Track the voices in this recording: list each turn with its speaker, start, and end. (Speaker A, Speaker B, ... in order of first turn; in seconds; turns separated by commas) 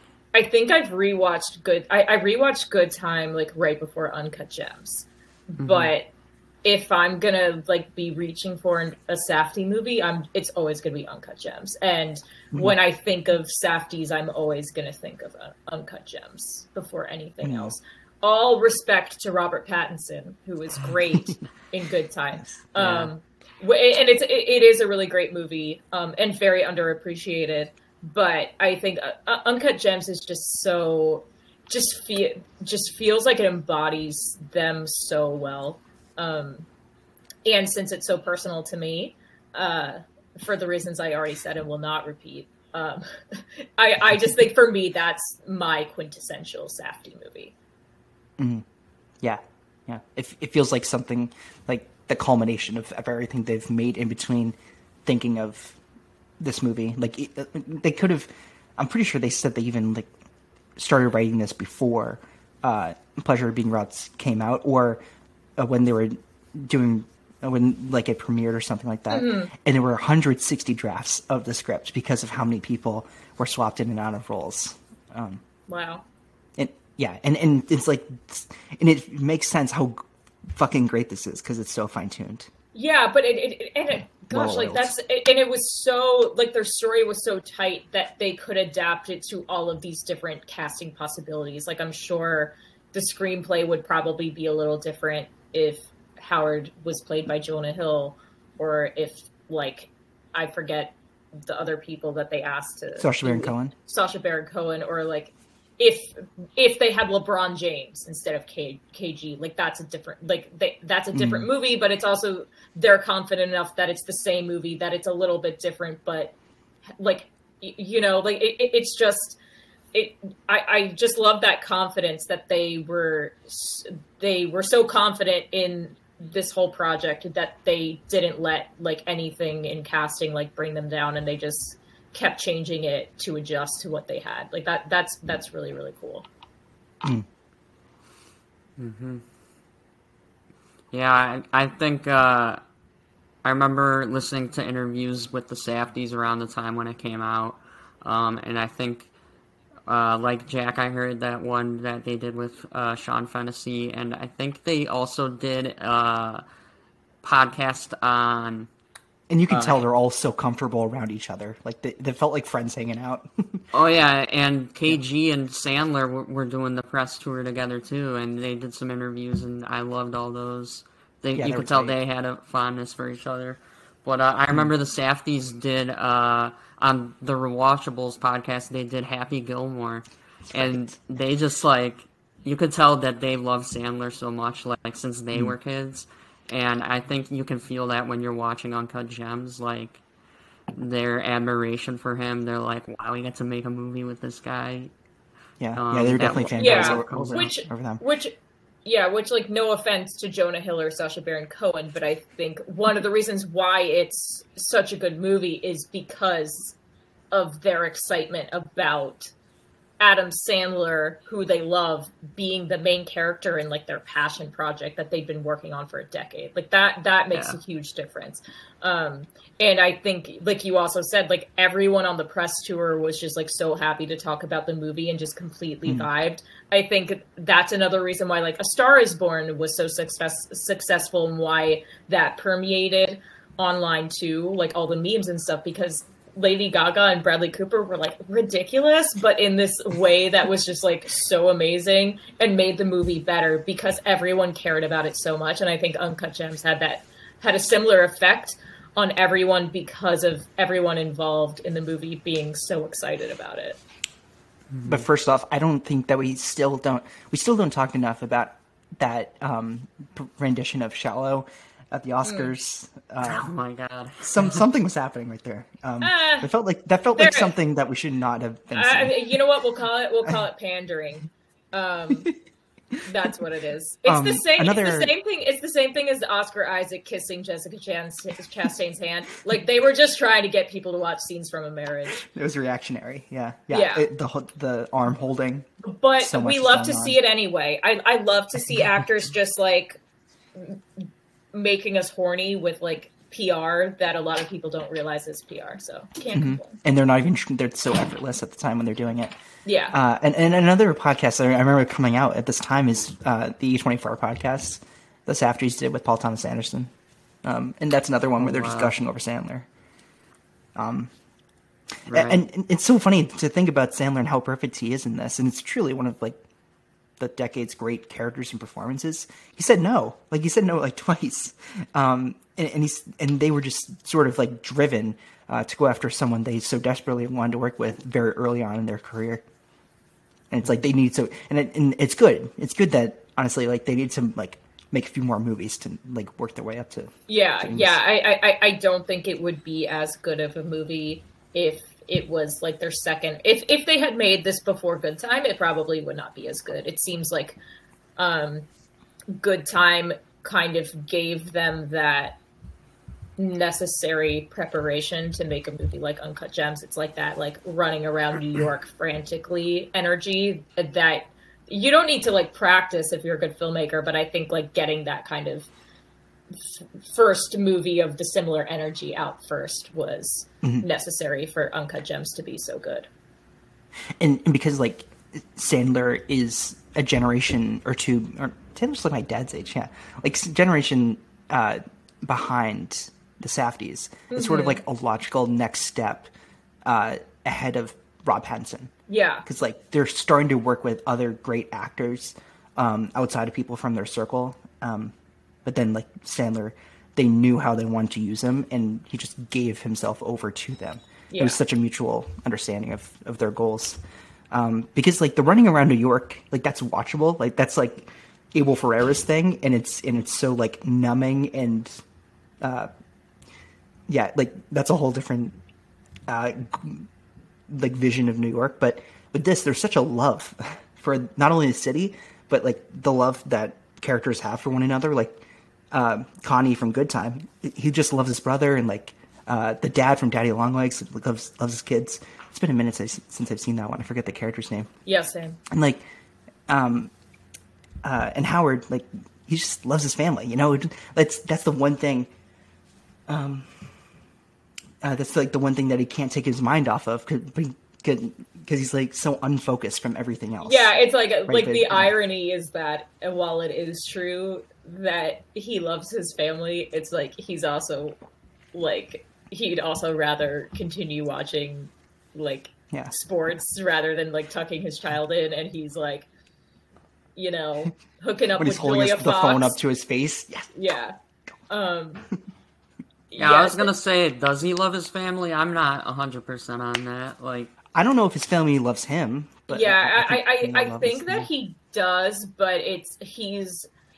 Speaker A: 0.3-6.1, Speaker B: 5.6-5.9, Speaker A: 6.6-36.6, Speaker C: 17.4-17.8, Speaker C: 22.3-23.0, Speaker A: 37.4-47.5, Speaker C: 48.4-48.6, Speaker C: 49.2-55.8, Speaker C: 56.4-60.1, Speaker C: 60.8-65.0, Speaker C: 65.6-75.4, Speaker A: 69.1-69.5, Speaker A: 75.7-76.0, Speaker C: 76.6-82.5, Speaker A: 82.7-116.3, Speaker C: 84.2-85.0, Speaker C: 103.0-103.7, Speaker C: 111.1-111.5, Speaker A: 117.0-119.4, Speaker A: 119.9-136.2, Speaker B: 138.8-139.2, Speaker B: 140.9-142.6, Speaker B: 143.4-149.1, Speaker B: 149.9-156.4, Speaker B: 157.2-158.7, Speaker C: 159.3-163.6, Speaker B: 159.5-159.8, Speaker B: 163.7-190.0, Speaker C: 171.3-171.9, Speaker C: 180.5-181.0, Speaker B: 190.7-194.9, Speaker C: 195.6-198.0, Speaker B: 195.7-197.5, Speaker A: 196.6-198.3, Speaker A: 198.8-206.8, Speaker A: 207.3-209.3, Speaker A: 210.0-253.8, Speaker B: 254.7-255.1, Speaker C: 254.8-263.5, Speaker A: 262.2-262.5, Speaker B: 263.2-264.6, Speaker C: 264.2-269.3, Speaker A: 266.0-266.5, Speaker A: 267.1-267.5, Speaker A: 268.7-272.3, Speaker A: 273.1-282.2, Speaker C: 274.0-275.1, Speaker C: 282.2-285.7, Speaker A: 283.7-284.1, Speaker A: 285.8-290.0, Speaker C: 286.2-287.2, Speaker A: 290.6-296.8, Speaker C: 296.3-299.3, Speaker A: 299.6-299.9, Speaker C: 299.9-306.9, Speaker C: 307.4-309.7, Speaker B: 308.4-308.9, Speaker C: 310.7-311.1, Speaker B: 312.1-312.4, Speaker C: 312.1-316.4, Speaker C: 317.2-329.4, Speaker C: 330.5-338.0, Speaker A: 337.3-347.6, Speaker A: 348.2-348.7, Speaker A: 349.3-352.4, Speaker A: 353.4-365.7, Speaker A: 366.5-373.1, Speaker C: 374.2-386.3, Speaker A: 384.3-384.8, Speaker C: 386.8-388.9, Speaker A: 389.1-389.4, Speaker C: 389.4-395.1, Speaker C: 395.6-404.0, Speaker A: 401.3-401.6, Speaker C: 404.5-412.0, Speaker C: 412.6-412.9, Speaker C: 414.1-415.6, Speaker C: 416.3-417.1, Speaker C: 417.7-434.9, Speaker A: 435.1-435.6, Speaker C: 435.7-436.0, Speaker C: 436.7-437.1, Speaker C: 438.0-442.3, Speaker C: 443.3-443.8, Speaker C: 445.0-450.9, Speaker A: 450.6-458.2, Speaker C: 451.4-452.1, Speaker A: 458.7-466.3, Speaker A: 467.4-469.8, Speaker C: 468.6-470.7, Speaker A: 470.7-471.1, Speaker A: 471.7-472.2, Speaker A: 473.3-473.9, Speaker B: 473.4-477.7, Speaker C: 477.9-481.5, Speaker A: 479.7-483.9